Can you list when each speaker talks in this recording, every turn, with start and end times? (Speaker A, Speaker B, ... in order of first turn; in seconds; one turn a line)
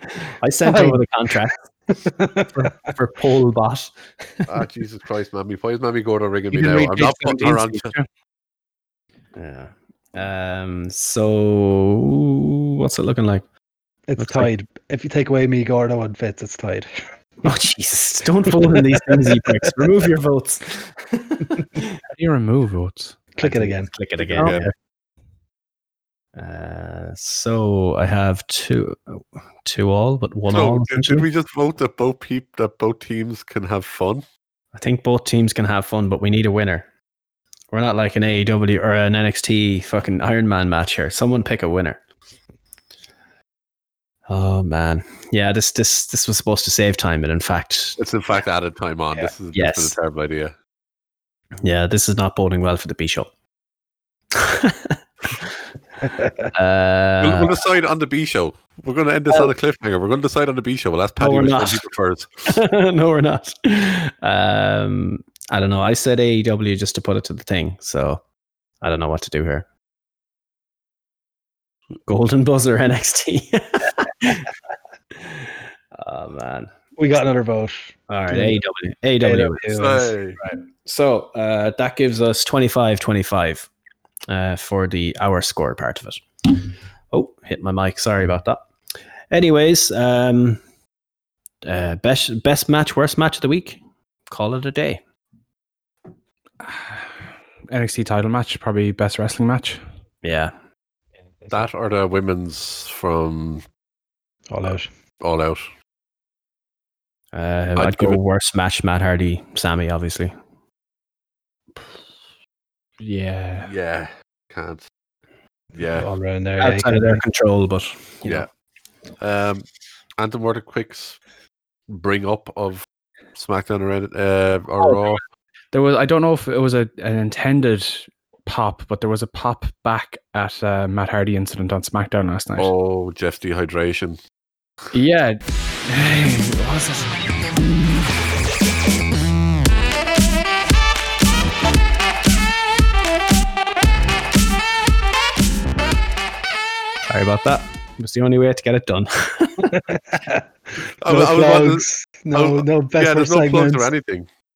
Speaker A: 0.4-1.7
Speaker B: 0.7-1.0
Speaker B: 1.9-2.8
Speaker A: 2.5-4.5
Speaker C: 4.5-7.9
Speaker D: 6.5-8.1
Speaker A: 9.4-13.5
Speaker B: 14.1-16.9
Speaker A: 14.2-14.5
Speaker A: 17.4-22.0
Speaker B: 18.5-19.8
Speaker D: 22.1-23.2
Speaker B: 23.4-24.6
Speaker A: 23.4-24.7
Speaker C: 24.2-24.7
Speaker A: 26.4-31.3
Speaker C: 30.5-34.2
Speaker A: 34.8-36.9
Speaker A: 37.7-42.0
Speaker A: 44.3-48.0
Speaker C: 48.0-50.5
Speaker A: 49.5-50.0
Speaker A: 51.6-53.3
Speaker A: 54.3-55.6
Speaker B: 56.0-56.5
Speaker A: 56.5-57.5
Speaker C: 57.2-62.6
Speaker A: 61.2-61.9
Speaker A: 62.5-68.2
Speaker A: 68.8-69.7
Speaker A: 72.1-74.5
Speaker A: 75.2-76.7
Speaker B: 77.0-78.6
Speaker A: 78.1-83.7
Speaker B: 79.2-80.1
Speaker C: 79.7-80.4
Speaker A: 84.3-86.6
Speaker A: 87.1-88.7
Speaker A: 89.3-90.6
Speaker A: 91.7-95.0
Speaker D: 96.6-97.1
Speaker D: 97.7-99.8
Speaker A: 100.2-100.5
Speaker B: 101.4-101.7
Speaker C: 101.5-103.6
Speaker B: 104.5-104.9
Speaker C: 105.2-105.7
Speaker A: 107.3-110.4
Speaker C: 107.8-108.2
Speaker D: 113.0-113.7
Speaker C: 113.6-114.8
Speaker C: 115.7-116.1
Speaker B: 115.9-117.2
Speaker A: 116.6-118.5
Speaker C: 119.2-119.7
Speaker C: 120.2-121.2
Speaker C: 121.9-125.2
Speaker D: 124.8-125.1
Speaker D: 125.7-132.7
Speaker C: 132.6-134.2
Speaker D: 134.9-137.6
Speaker A: 147.0-149.8
Speaker B: 149.7-150.4
Speaker C: 151.0-154.3
Speaker B: 151.1-153.9